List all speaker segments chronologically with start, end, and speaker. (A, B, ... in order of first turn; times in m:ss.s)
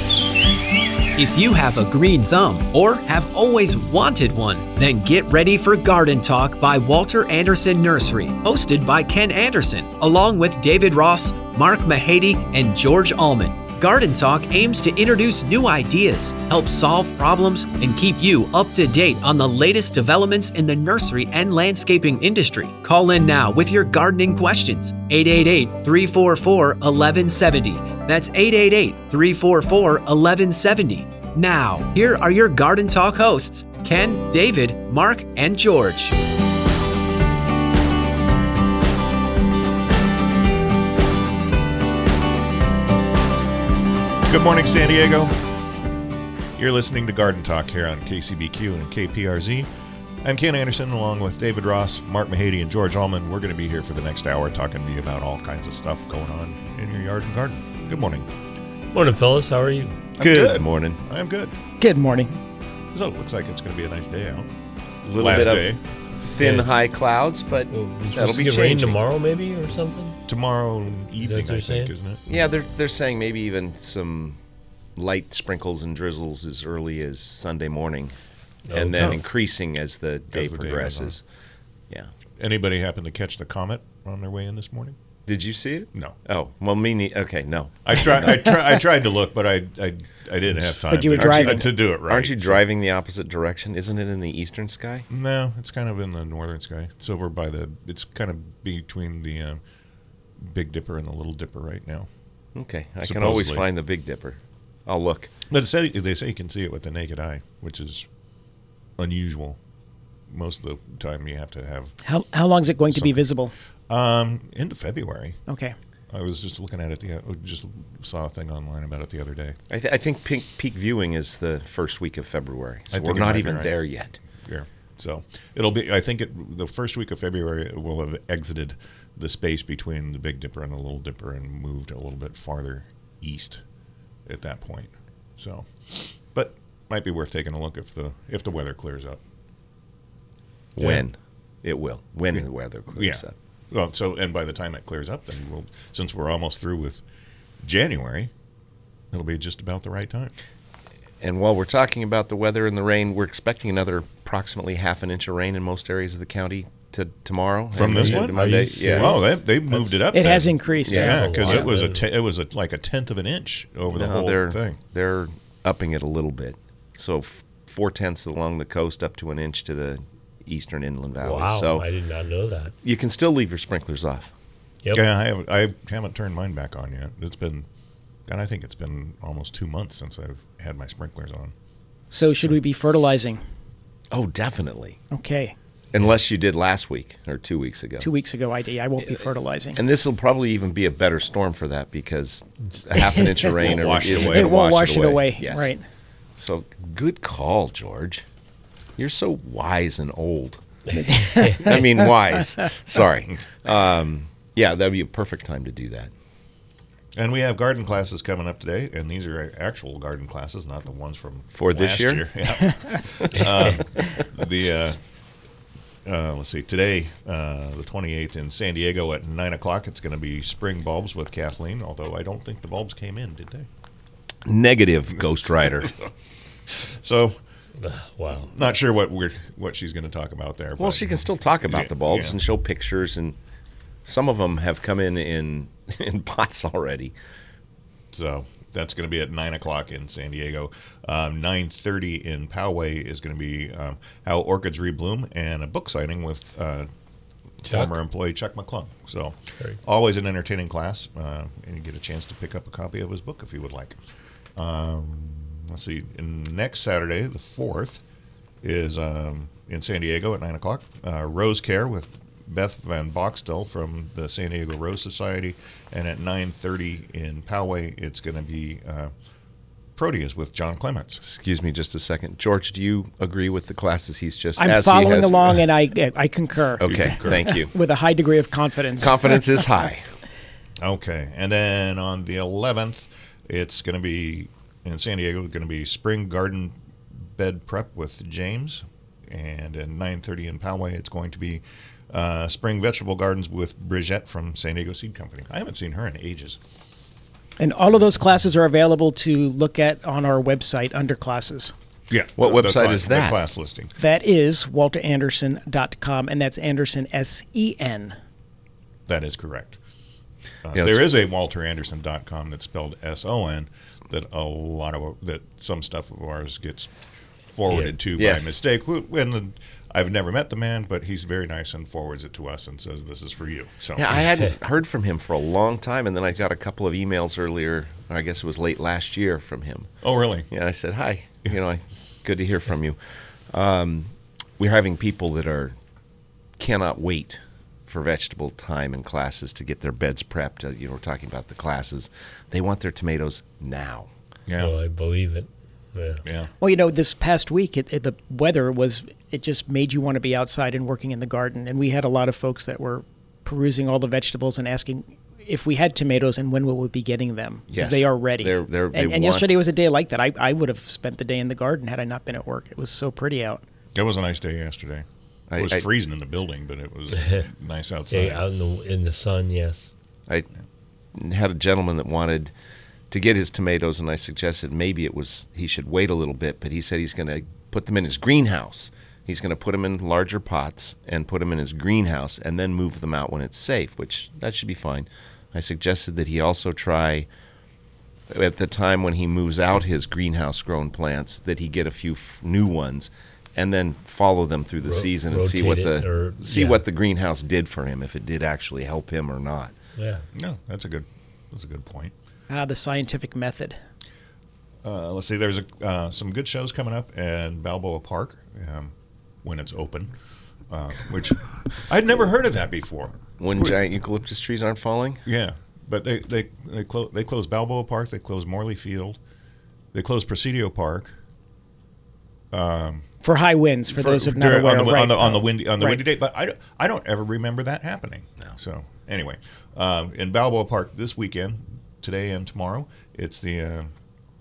0:01.2-0:36.2 A
0:44.2-0:45.4 B
0:46.6-0:49.7 B
0:50.2-0:58.3 B
0:58.9-1:00.0 C
1:00.2-1:01.6 B
1:00.2-1:01.0 D
1:01.8-1:02.4 E
1:02.9-1:04.5 B
1:05.0-1:09.0 D
1:05.2-1:05.8 B
1:06.4-1:06.7 C
1:07.7-1:10.2 C
1:10.3-1:12.3 B
1:11.2-1:11.9 C
1:12.3-1:14.4 D
1:15.0-1:18.1 D
1:18.7-1:19.1 C
1:18.7-1:21.2 D
1:18.9-1:19.2 B
1:20.3-1:21.2 B
1:22.4-1:25.0 B
1:25.3-1:28.4 D
1:27.8-1:32.6 B
1:30.9-1:31.7 E
1:31.1-1:35.1 D
1:35.1-1:39.6 B
1:40.4-1:42.1 B
1:42.6-1:45.3 D
1:43.0-1:43.6 B
1:45.5-1:48.1 B
1:49.0-1:49.6 B
1:50.3-1:51.9 B
1:52.0-1:53.5 E
1:52.9-1:53.3 B
1:53.9-1:55.4 B
1:55.5-1:55.7 E
1:56.1-1:59.6 B
1:59.7-2:04.2 D
2:02.9-2:03.7 B
2:04.4-2:13.6 B
2:14.3-2:19.2 B
2:20.8-2:23.3 D
2:23.0-2:27.0 B
2:27.6-2:28.3 B
2:29.1-2:30.3 B
2:31.2-2:39.2 D
2:37.7-2:44.8 B
2:37.8-2:39.2 C
2:40.1-2:41.5 E
2:40.9-2:41.7 D
2:41.0-2:42.0 C
2:43.9-2:51.9 D
2:51.2-2:52.7 C
2:52.8-2:54.3 D
2:54.9-2:57.7 B
2:58.3-3:01.5 B
3:02.1-3:03.4 E
3:04.1-3:05.0 D
3:05.1-3:05.6 E
3:05.9-3:08.1 D
3:08.0-3:09.8 E
3:09.8-3:15.7 D
3:13.0-3:13.4 E
3:13.6-3:14.6 B
3:14.1-3:15.8 E
3:16.4-3:18.2 D
3:19.0-3:26.1 D
3:21.1-3:22.0 E
3:21.1-3:21.8 C
3:27.2-3:35.0 B
3:31.6-3:32.3 D
3:33.1-3:33.7 D
3:36.0-3:43.7 B
3:44.5-3:45.9 D
3:45.8-3:46.1 B
3:46.7-3:47.4 B
3:47.8-3:48.5 C
3:48.3-3:52.4 B
3:50.8-3:53.4 D
3:54.1-3:57.2 D
3:58.1-4:06.9 B
4:07.6-4:14.0 B
4:07.7-4:07.9 C
4:14.6-4:18.0 B
4:18.6-4:29.1 B
4:30.0-4:31.2 B
4:31.2-4:35.6 D
4:34.6-4:39.4 E
4:36.8-4:37.7 D
4:36.8-4:37.5 B
4:39.0-4:40.1 D
4:40.8-4:56.6 B
4:57.6-5:01.7 E
5:02.1-5:03.9 B
5:02.4-5:03.4 D
5:04.0-5:08.2 E
5:09.1-5:09.8 B
5:10.6-5:16.9 B
5:10.7-5:11.1 D
5:17.5-5:24.3 B
5:18.2-5:18.6 D
5:24.0-5:29.9 D
5:30.0-5:30.5 B
5:30.5-5:33.0 D
5:33.5-5:35.7 D
5:36.6-5:44.1 D
5:44.5-5:44.7 B
5:44.6-5:46.2 C
5:46.2-5:46.5 B
5:46.6-6:03.6 E
5:57.7-5:59.6 D
6:03.9-6:05.0 B
6:05.5-6:05.9 D
6:05.6-6:08.4 B
6:08.1-6:09.9 C
6:11.2-6:12.5 D
6:13.1-6:27.3 D
6:28.3-6:39.7 D
6:34.9-6:36.8 C
6:40.0-6:40.2 C
6:40.3-6:42.1 B
6:42.5-6:43.8 E
6:44.8-6:50.1 B
6:50.7-6:53.8 B
6:53.4-6:55.2 D
6:55.2-6:59.2 B
6:59.9-7:01.1 B
7:02.5-7:03.1 B
7:03.2-7:06.0 E
7:03.9-7:13.9 B